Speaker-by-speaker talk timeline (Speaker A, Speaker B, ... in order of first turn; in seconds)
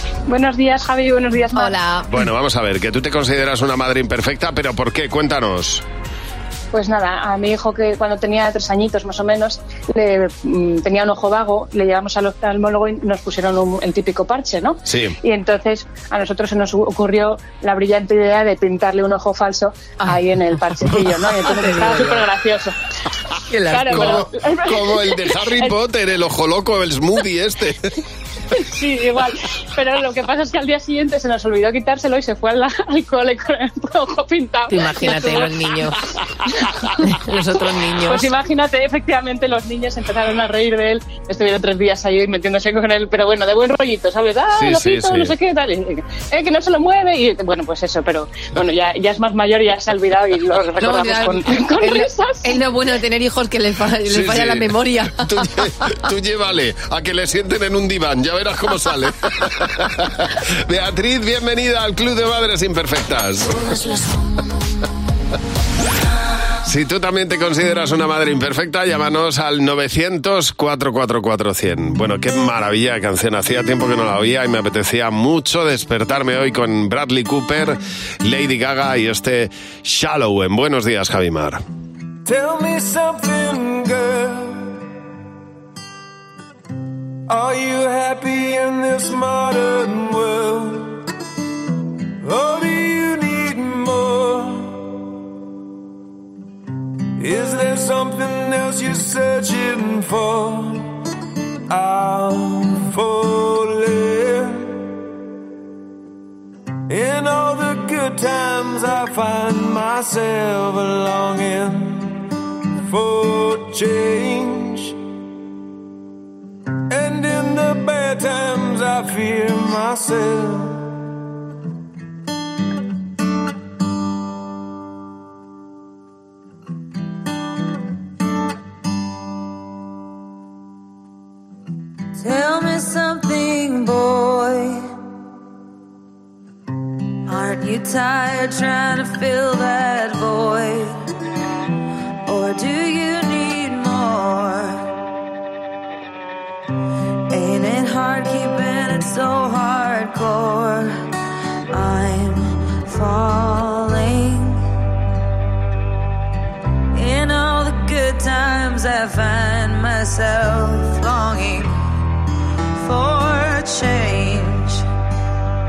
Speaker A: 0.3-1.8, 6.7-22.7, 23.7-25.8, 28.7-35.9, 37.6-52.6
Speaker B: 1.5-2.2, 20.9-22.2, 23.5-24.2, 34.7-36.0, 37.0-38.3, 50.8-55.5
Speaker C: 2.1-5.8, 14.8-15.1, 23.7-27.8, 44.5-45.3, 54.1-63.8, 66.6-81.6
Speaker D: 82.2-84.8, 87.3-91.0, 92.2-94.8, 97.2-100.9, 101.7-104.9, 106.9-112.2, 112.8-115.0, 116.9-120.8
Speaker E: 132.2-134.7, 137.3-140.9, 142.3-144.8, 147.3-150.8, 151.7-154.6, 157.0-161.7, 162.8-164.8